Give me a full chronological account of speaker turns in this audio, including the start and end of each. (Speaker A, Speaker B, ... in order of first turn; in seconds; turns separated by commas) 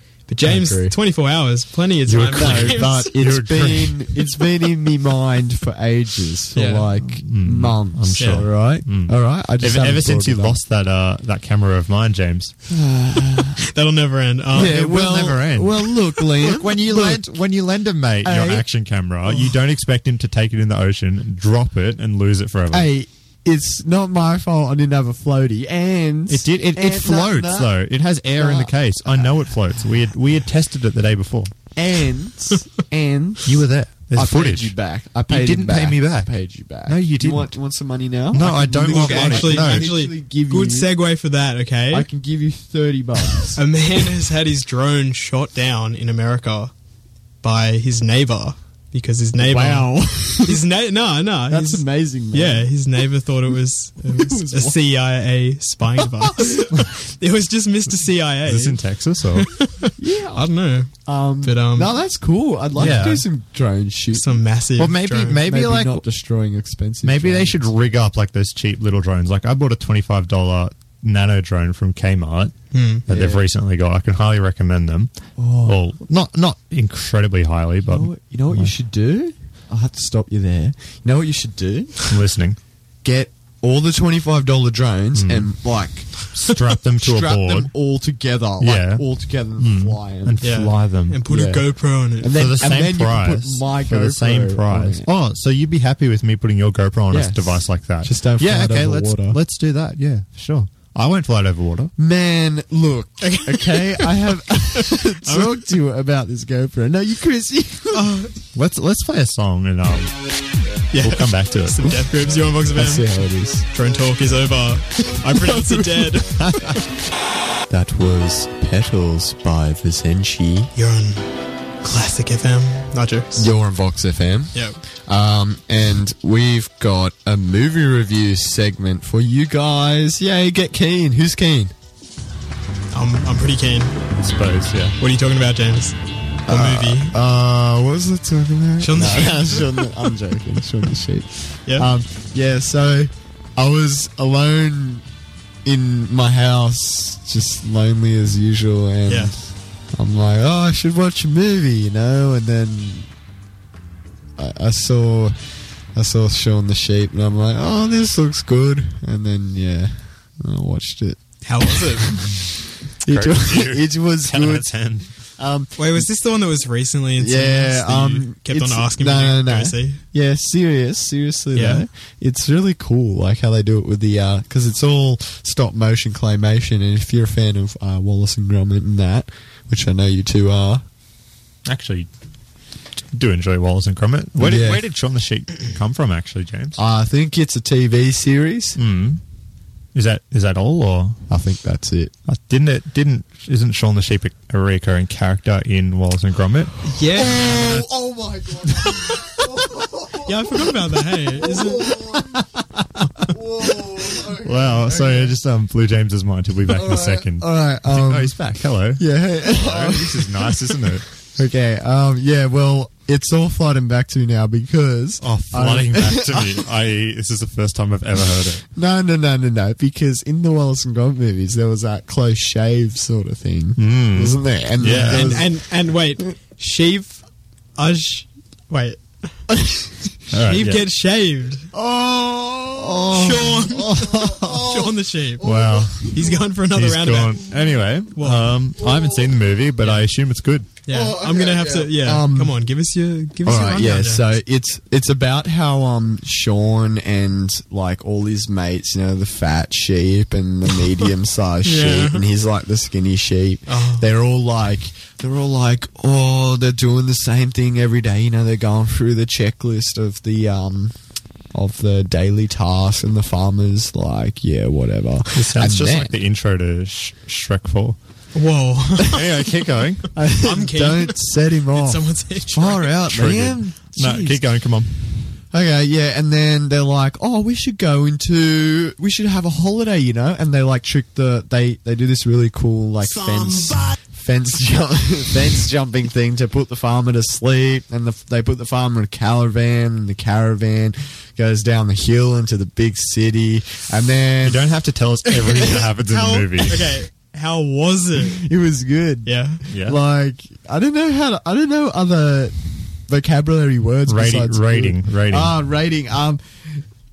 Speaker A: 0.3-3.1, Speaker B: 0.4-0.9, Speaker C: 2.1-4.1, Speaker B: 2.4-10.6, Speaker A: 6.5-6.8, Speaker C: 6.9-12.5, Speaker A: 8.2-8.4, Speaker B: 12.7-13.6, Speaker A: 13.6-14.8, Speaker B: 14.5-17.2, Speaker C: 14.5-22.9, Speaker B: 18.2-18.6, Speaker B: 19.2-19.6, Speaker B: 22.7-27.7, Speaker C: 26.3-31.5, Speaker B: 28.4-29.3, Speaker B: 31.7-33.6, Speaker C: 33.4-34.7, Speaker B: 34.1-40.9, Speaker C: 35.2-36.3, Speaker C: 36.8-37.5, Speaker C: 38.3-39.9, Speaker A: 38.8-42.1, Speaker B: 41.9-43.6, Speaker A: 43.5-46.7, Speaker A: 47.4-58.8, Speaker B: 49.4-50.6, Speaker B: 51.5-52.7, Speaker B: 54.0-54.8, Speaker B: 56.0-56.7, Speaker C: 58.4-59.5, Speaker A: 59.4-61.9, Speaker B: 60.0-64.4, Speaker C: 62.8-63.2, Speaker A: 62.8-63.1, Speaker A: 64.1-65.4, Speaker C: 64.8-66.0, Speaker B: 65.4-67.6, Speaker C: 67.0-75.1, Speaker A: 72.7-73.0, Speaker B: 73.1-73.4, Speaker B: 75.4-75.8, Speaker C: 75.6-78.7, Speaker B: 77.9-82.0, Speaker C: 82.1-82.6, Speaker B: 83.0-86.1, Speaker C: 85.1-85.5, Speaker C: 86.1-87.7, Speaker B: 87.0-90.3, Speaker C: 88.6-89.0, Speaker C: 89.6-91.2, Speaker A: 90.4-92.3, Speaker B: 91.3-95.1, Speaker C: 92.3-101.9, Speaker B: 97.1-99.4, Speaker B: 102.0-108.1, Speaker A: 103.2-104.1, Speaker A: 104.7-105.6, Speaker A: 107.9-108.3, Speaker C: 108.5-110.2, Speaker A: 110.9-116.7, Speaker C: 111.0-111.9, Speaker B: 112.7-113.6, Speaker B: 115.3-116.1, Speaker C: 116.4-116.8, Speaker B: 117.7-120.7, Speaker A: 120.7-121.3, Speaker A: 121.8-123.5, Speaker B: 123.3-131.7, Speaker A: 124.5-124.8, Speaker A: 132.9-134.0, Speaker C: 134.2-134.9, Speaker A: 135.0-137.2, Speaker B: 136.5-145.0, Speaker A: 138.8-139.9, Speaker B: 145.6-153.1, Speaker A: 149.1-149.3, Speaker B: 154.4-155.4, Speaker B: 155.9-164.7, Speaker A: 161.4-162.2, Speaker C: 163.1-165.1, Speaker B: 165.3-166.0, Speaker A: 165.8-170.0, Speaker B: 167.2-180.8, Speaker A: 171.5-171.8, Speaker C: 181.7-182.1, Speaker C: 183.1-186.8, Speaker B: 184.4-184.8, Speaker B: 186.8-188.8, Speaker C: 188.8-189.2, Speaker C: 189.9-191.2, Speaker B: 191.3-192.1, Speaker C: 192.3-196.8, Speaker A: 196.9-197.6, Speaker B: 197.1-202.4, Speaker C: 197.4-197.8, Speaker A: 200.2-202.0, Speaker B: 203.2-205.3, Speaker C: 204.3-211.1, Speaker B: 206.7-208.4, Speaker B: 208.9-216.7, Speaker C: 215.2-218.6, Speaker B: 218.7-225.6, Speaker C: 223.8-225.4, Speaker A: 224.8-227.2, Speaker A: 227.8-229.4, Speaker C: 230.3-230.9, Speaker A: 230.5-231.7, Speaker B: 231.7-236.4, Speaker A: 233.1-235.5, Speaker C: 234.0-234.6, Speaker C: 235.4-236.1, Speaker A: 236.0-237.4, Speaker C: 236.7-240.7, Speaker A: 238.2-238.5, Speaker B: 238.8-239.3, Speaker A: 240.8-244.3, Speaker B: 240.9-242.6, Speaker B: 243.4-260.9, Speaker A: 251.6-252.2, Speaker A: 253.7-254.1, Speaker B: 261.5-266.1, Speaker C: 265.3-268.0, Speaker A: 268.3-269.4, Speaker C: 269.1-270.1, Speaker B: 270.1-274.4, Speaker A: 270.4-272.9, Speaker C: 273.1-275.0, Speaker B: 275.5-294.6, Speaker C: 294.4-296.9, Speaker B: 295.4-295.8, Speaker A: 296.5-298.4, Speaker B: 298.2-302.6, Speaker A: 299.2-299.6, Speaker C: 299.7-300.0, Speaker B: 303.1-306.8, Speaker C: 304.1-305.5